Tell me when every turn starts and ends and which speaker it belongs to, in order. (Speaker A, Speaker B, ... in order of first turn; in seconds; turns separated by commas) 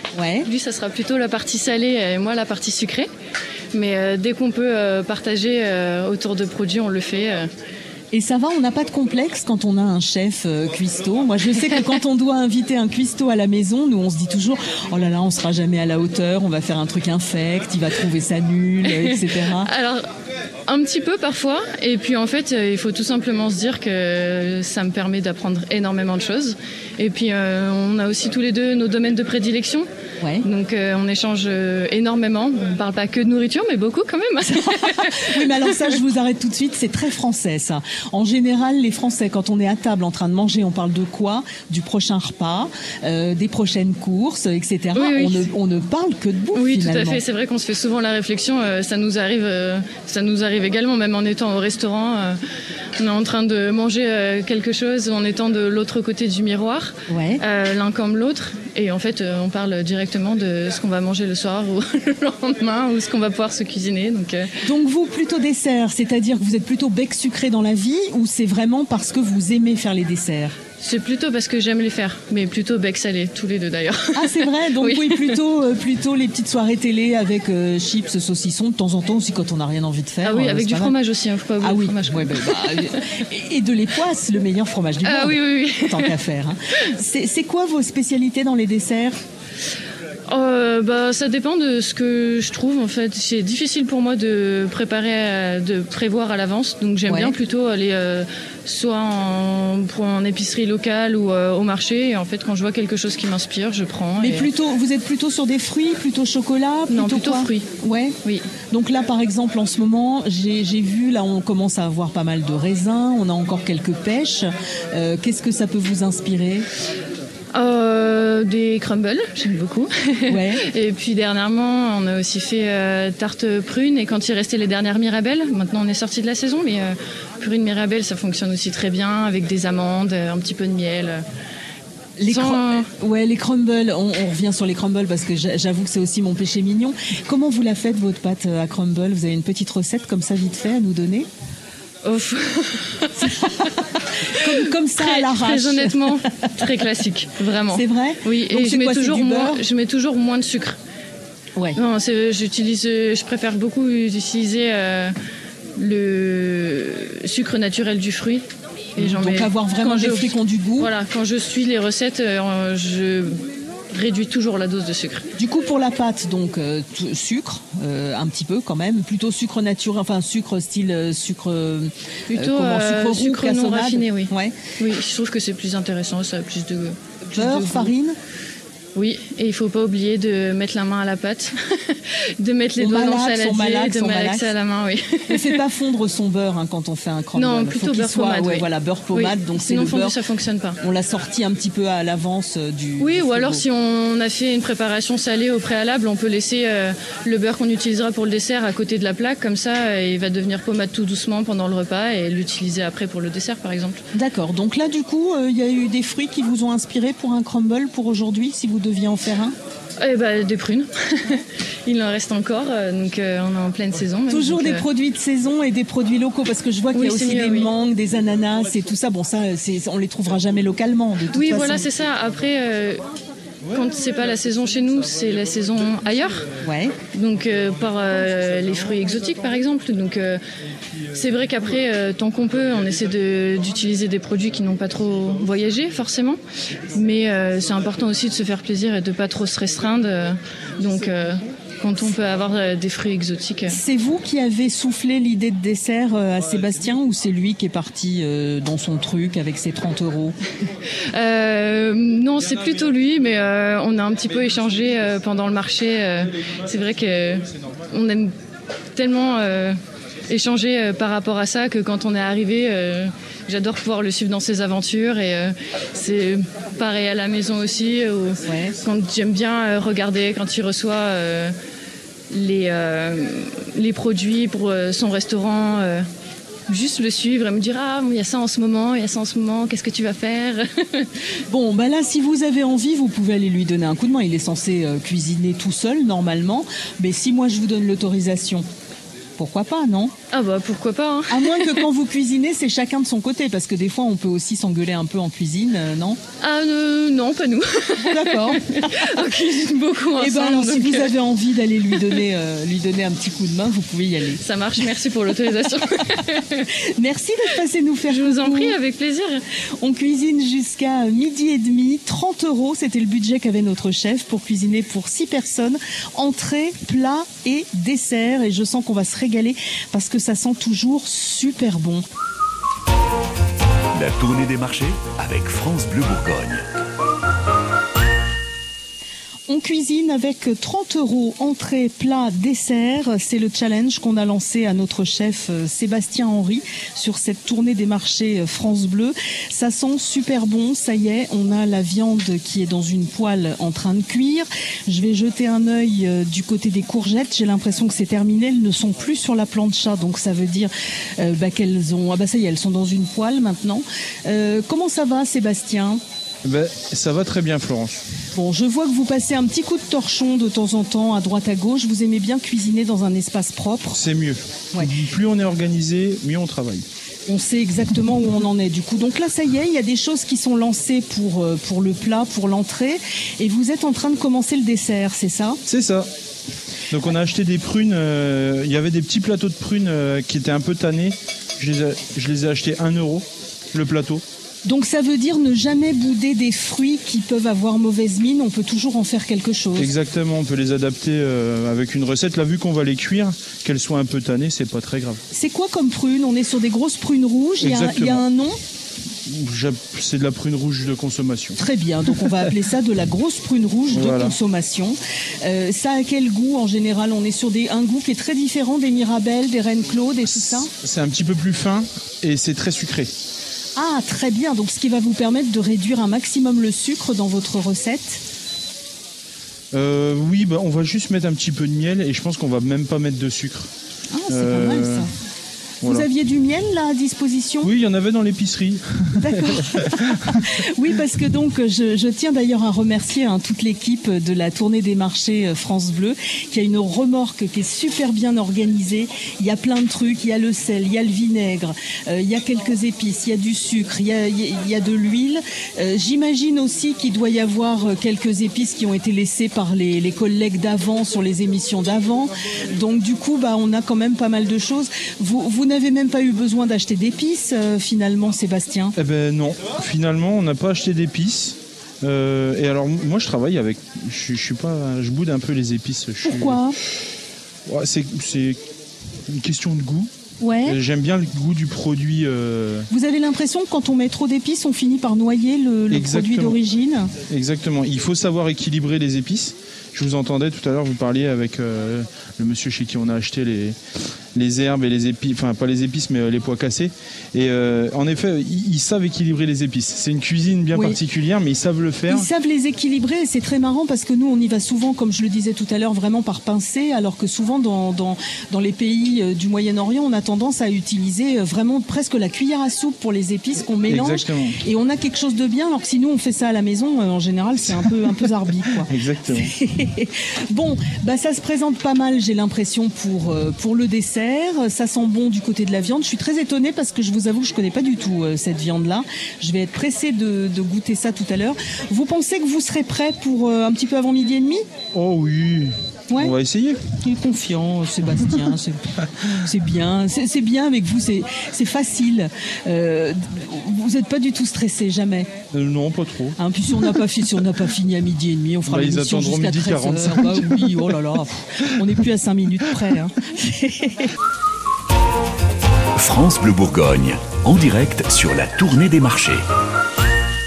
Speaker A: 0.1-0.5, Speaker B: 0.5-3.1, Speaker B: 3.7-7.5, Speaker A: 8.1-19.7, Speaker B: 19.6-20.1, Speaker B: 20.7-29.9, Speaker A: 30.2-30.4, Speaker B: 30.4-35.4, Speaker A: 34.4-47.2, Speaker B: 44.9-45.5, Speaker B: 46.5-52.4, Speaker B: 53.0-64.5, Speaker A: 57.1-57.4, Speaker A: 64.6-70.5, Speaker B: 70.8-75.4, Speaker A: 74.1-81.0, Speaker B: 80.2-82.9, Speaker A: 81.6-89.2, Speaker B: 85.0-86.1, Speaker B: 90.3-104.5, Speaker A: 97.1-97.3, Speaker A: 104.2-108.2, Speaker B: 106.9-107.7, Speaker A: 108.7-116.7, Speaker B: 117.5-131.2, Speaker A: 120.3-120.7, Speaker A: 132.2-141.3, Speaker B: 132.3-132.9, Speaker B: 142.0-143.3, Speaker A: 143.2-143.7, Speaker A: 144.3-146.5, Speaker B: 145.0-150.8, Speaker A: 147.7-149.6, Speaker B: 151.8-155.1, Speaker B: 155.8-158.4, Speaker A: 159.0-160.9, Speaker B: 159.0-165.2, Speaker A: 165.4-174.5, Speaker B: 172.3-177.9, Speaker A: 177.3-178.2, Speaker B: 178.9-185.6, Speaker A: 182.8-184.5, Speaker A: 185.3-190.2, Speaker B: 187.3-190.8, Speaker A: 190.8-193.6, Speaker B: 193.0-204.0, Speaker A: 204.1-209.5, Speaker B: 210.0-214.8, Speaker A: 214.3-221.9, Speaker B: 216.9-217.7, Speaker B: 221.3-223.0, Speaker B: 223.7-226.5, Speaker A: 226.6-227.0, Speaker B: 227.1-230.4, Speaker B: 231.1-236.4, Speaker B: 236.9-243.8, Speaker A: 243.7-250.4, Speaker B: 251.1-258.3, Speaker C: 254.5-255.0, Speaker B: 258.9-259.8, Speaker B: 260.3-271.5, Speaker A: 268.4-268.7, Speaker B: 272.3-276.1, Speaker B: 276.7-281.1, Speaker A: 281.5-288.6, Speaker A: 289.4-290.1, Speaker B: 290.3-291.8, Speaker A: 291.3-296.2, Speaker B: 296.4-301.1, Speaker A: 298.1-299.1, Speaker A: 300.2-304.4, Speaker B: 304.4-306.6, Speaker A: 306.9-308.7, Speaker B: 308.1-309.4, Speaker A: 309.8-322.1, Speaker D: 323.9-326.6, Speaker A: 329.5-356.0, Speaker C: 356.4-358.0, Speaker A: 358.3-364.0, Speaker C: 363.9-366.9, Speaker A: 367.3-375.6, Speaker C: 375.6-376.1, Speaker C: 376.9-384.2, Speaker A: 384.6-389.9, Speaker C: 389.8-395.2, Speaker A: 395.3-398.6, Speaker C: 397.6-398.2, Speaker C: 399.2-401.6, Speaker A: 401.6-410.7, Speaker C: 403.9-404.3, Speaker C: 410.2-413.1, Speaker A: 413.8-418.2, Speaker C: 419.7-423.7, Speaker A: 424.1-425.1, Speaker C: 424.3-425.1, Speaker C: 425.8-426.1, Speaker A: 425.8-427.7, Speaker C: 427.6-430.5, Speaker A: 429.2-458.9, Speaker C: 458.9-466.6, Speaker A: 466.2-466.8, Speaker C: 467.6-468.6, Speaker C: 469.2-470.1, Speaker A: 470.4-470.8, Speaker C: 470.6-472.9, Speaker A: 472.9-477.1, Speaker C: 475.9-476.6, Speaker C: 477.3-483.8, Speaker C: 484.3-492.3, Speaker A: 492.1-524.6, Speaker C: 503.7-504.6, Speaker C: 508.9-509.5, Speaker C: 524.9-526.8, Speaker A: 527.0-535.3, Speaker C: 535.5-536.4, Speaker A: 536.4-544.1, Speaker C: 538.6-540.9, Speaker D: 546.0-549.4